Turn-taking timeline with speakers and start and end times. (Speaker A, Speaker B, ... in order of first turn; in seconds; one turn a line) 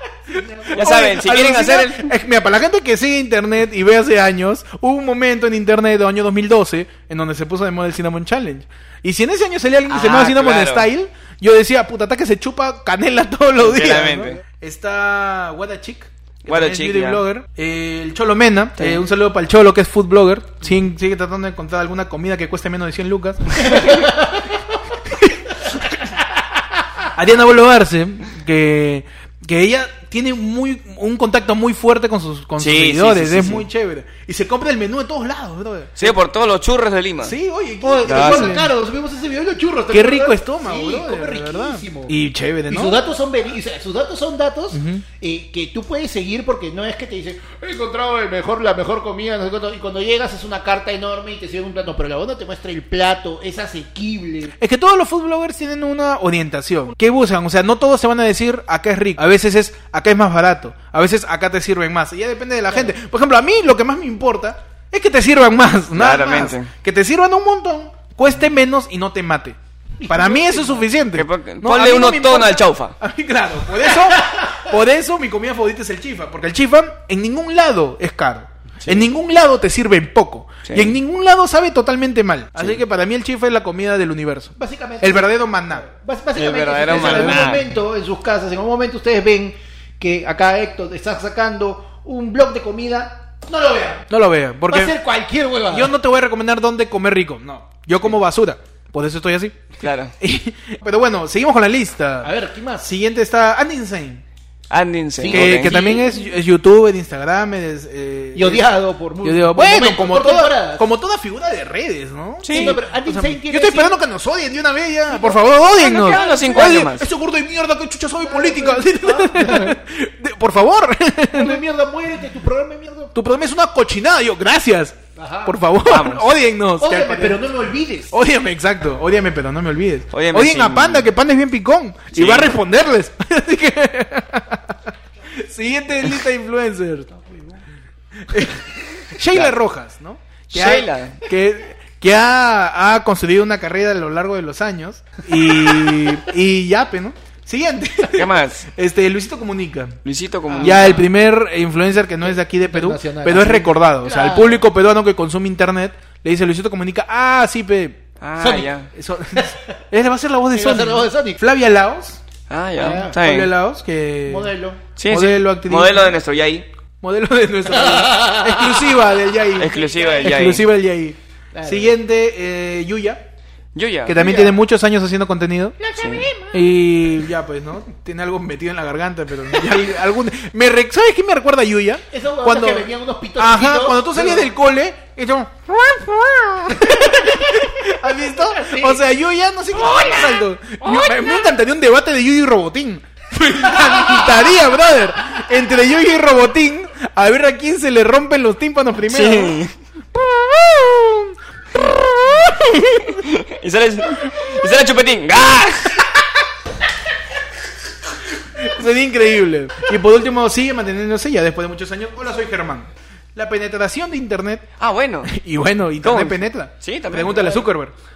Speaker A: 0.3-1.0
Speaker B: 0.7-24.2
Speaker C: 0.7-2.1
Speaker C: 9.9-10.9
Speaker C: 13.6-14.4
Speaker C: 16.5-17.2
Speaker A: 23.6-24.5
Speaker B: 25.1-26.0
Speaker B: 27.1-36.1
Speaker C: 32.6-33.6
Speaker C: 36.0-37.4
Speaker B: 37.2-38.7
Speaker A: 37.8-42.1
Speaker C: 38.0-38.6
Speaker B: 39.9-43.0
Speaker A: 42.7-54.5
Speaker B: 44.7-45.0
Speaker B: 54.6-85.8
Speaker C: 65.9-66.7
Speaker A: 70.0-70.9
Speaker C: 71.1-73.0
Speaker A: 73.9-74.7
Speaker C: 80.6-81.0
Speaker A: 84.6-94.1
Speaker C: 86.3-87.7
Speaker B: 86.9-87.6
Speaker B: 94.1-94.9
Speaker A: 94.7-95.9
Speaker B: 95.7-102.3
Speaker C: 99.8-100.1
Speaker A: 102.2-102.9
Speaker B: 102.8-104.2
Speaker C: 104.7-105.8
Speaker A: 105.2-106.2
Speaker B: 105.3-108.7
Speaker A: 108.3-110.8
Speaker B: 109.2-121.6
Speaker C: 112.4-112.8
Speaker A: 112.5-114.0
Speaker A: 115.1-116.8
Speaker C: 115.8-117.1
Speaker A: 118.2-119.8
Speaker A: 121.3-123.1
Speaker B: 123.1-127.5
Speaker A: 125.2-125.6
Speaker C: 125.8-126.3
Speaker A: 126.8-128.1
Speaker B: 128.1-134.8
Speaker C: 130.1-131.1
Speaker C: 132.1-132.6
Speaker B: 135.3-137.1
Speaker A: 137.1-137.6
Speaker B: 138.3-150.0
Speaker C: 140.5-141.2
Speaker C: 148.1-148.7
Speaker C: 150.0-151.0
Speaker A: 150.5-151.1
Speaker B: 150.6-158.0
Speaker A: 152.2-154.6
Speaker C: 158.2-158.9
Speaker A: 158.4-158.7
Speaker B: 158.9-162.2
Speaker A: 159.3-159.7
Speaker A: 160.5-161.4
Speaker C: 162.5-163.5
Speaker A: 162.8-163.2
Speaker B: 162.8-164.5
Speaker A: 164.2-164.8
Speaker C: 165.0-166.7
Speaker B: 165.1-166.2
Speaker B: 167.0-173.2
Speaker A: 167.7-168.9
Speaker C: 169.6-170.7
Speaker A: 169.6-170.5
Speaker A: 171.5-171.9
Speaker C: 173.7-174.2
Speaker B: 174.1-175.8
Speaker A: 174.2-174.6
Speaker A: 175.8-176.6
Speaker C: 176.0-176.3
Speaker B: 176.5-199.6
Speaker A: 182.1-184.5
Speaker A: 186.7-187.8
Speaker A: 188.5-189.0
Speaker A: 189.7-191.3
Speaker A: 193.8-194.2
Speaker C: 199.1-199.7
Speaker B: 200.1-202.4
Speaker C: 201.8-206.1
Speaker B: 208.4-214.7
Speaker C: 214.8-215.3
Speaker B: 215.2-217.9
Speaker C: 216.0-217.7